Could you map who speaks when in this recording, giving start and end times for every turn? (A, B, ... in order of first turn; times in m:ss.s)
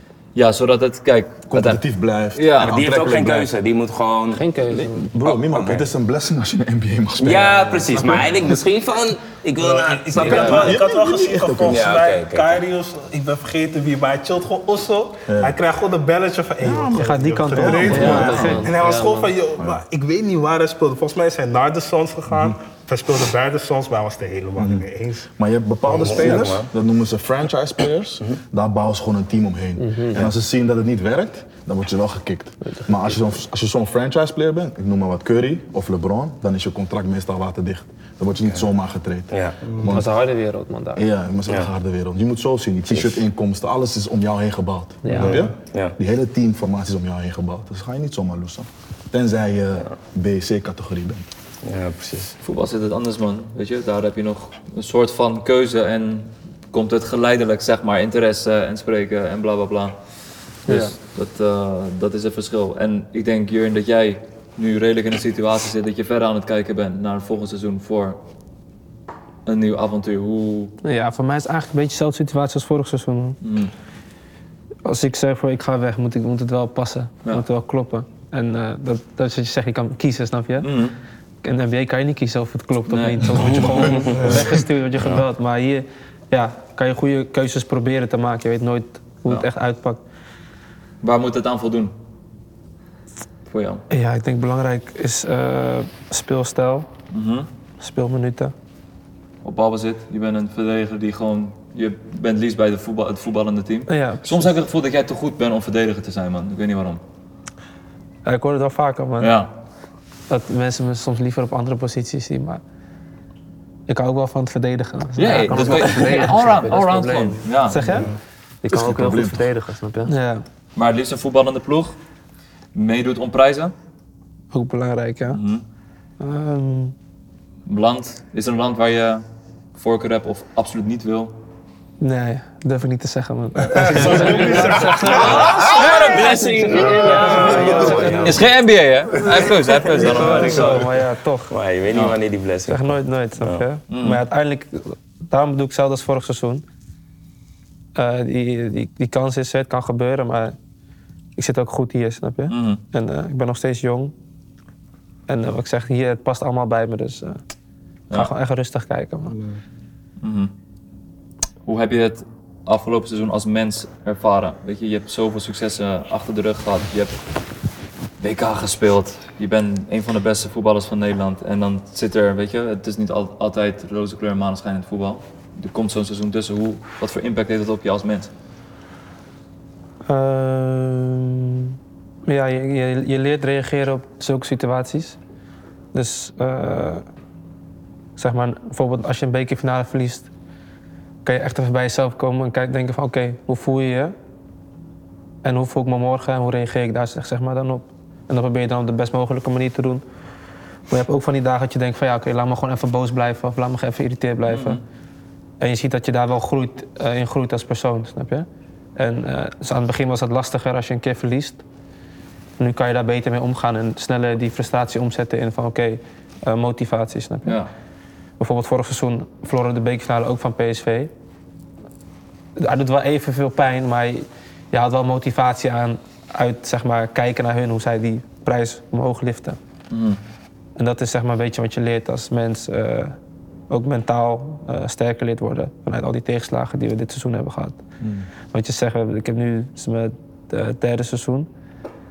0:00.4-0:01.8 A
0:01.5-0:03.5 B
0:02.4-0:02.8 A
0:02.6-0:04.4 C
0:04.3-0:05.1 D
0:04.7-0:08.6 B
0:05.2-0:05.9 C
0:07.2-0:10.8 C
0:09.5-0:25.3 E
0:10.1-0:11.9 B
0:11.6-0:12.6 C
0:15.3-0:15.6 B
0:16.6-0:18.5 B
0:16.9-0:18.7 F
0:17.8-0:19.3 D
0:22.3-0:22.6 B
0:24.6-0:24.9 B
0:25.4-0:40.2 B
0:25.8-0:26.6 E
0:25.9-0:26.7 C
0:29.8-0:30.3 D
0:32.6-0:33.3 D
0:39.7-0:40.0 E
0:39.8-0:41.0 D
0:41.0-0:51.3 B
0:45.0-0:45.4 D
0:45.1-0:45.5 E
0:51.6-0:52.4 C
0:52.4-1:00.0 A
1:00.7-1:08.2 A
1:09.4-1:10.7 A
1:10.8-1:13.4 F
1:13.4-1:13.7 A
1:14.8-1:20.7 F
1:20.6-1:20.9 A
1:21.4-1:30.0 F
1:22.9-1:23.7 A
1:23.4-1:24.4 B
1:24.2-1:24.4 E
1:31.0-1:31.9 A
1:33.5-1:33.8 A
1:33.9-1:36.9 F
1:37.1-1:37.5 A
1:37.8-1:38.5 F
1:39.4-1:47.0 A
1:43.9-1:44.5 F
1:48.2-1:49.4 F
1:49.2-1:49.5 A
1:50.3-1:52.6 F
1:53.9-1:56.4 F
1:55.2-1:57.9 A
1:55.3-1:57.5 D
1:57.7-1:58.1 F
1:57.8-1:58.2 E
1:58.6-2:00.1 D
1:58.7-1:59.5 B
2:00.1-2:00.4 F
2:00.8-2:02.0 A
2:02.7-2:03.7 A
2:04.5-2:05.4 F
2:05.3-2:05.6 A
2:06.2-2:06.9 F
2:07.6-2:09.2 A
2:09.8-2:11.4 A
2:12.0-2:18.4 F
2:13.7-2:15.5 E
2:14.2-2:20.9 A
2:15.4-2:18.4 C
2:16.8-2:17.9 D
2:17.1-2:17.9 E
2:19.3-2:20.9 E
2:20.0-2:21.5 F
2:21.5-2:23.6 C
2:21.9-2:22.2 A
2:22.6-2:26.6 F
2:23.9-2:24.2 A
2:28.0-2:30.6 F
2:31.4-2:34.1 F
2:32.5-2:32.8 A
2:35.3-2:37.4 F
2:38.1-2:39.4 F
2:39.3-2:39.6 E
2:40.2-2:40.5 A
2:41.6-2:47.2 A
2:48.2-2:58.3 A
3:00.1-3:01.7 F
3:02.2-3:05.2 F
3:05.9-3:07.0 F
3:08.2-3:10.3 F
3:11.2-3:14.1 F
3:15.4-3:20.0 F
3:20.9-3:24.8 F
3:24.5-3:24.8 A
3:25.6-3:31.6 F
3:32.6-3:37.6 F
3:37.4-3:37.7 A
3:38.4-3:41.1 F
3:42.6-3:49.6 F
3:49.9-3:50.2 A
3:50.8-3:53.2 F
3:53.7-3:57.8 F
3:58.0-3:58.3 B
3:58.5-4:01.5 F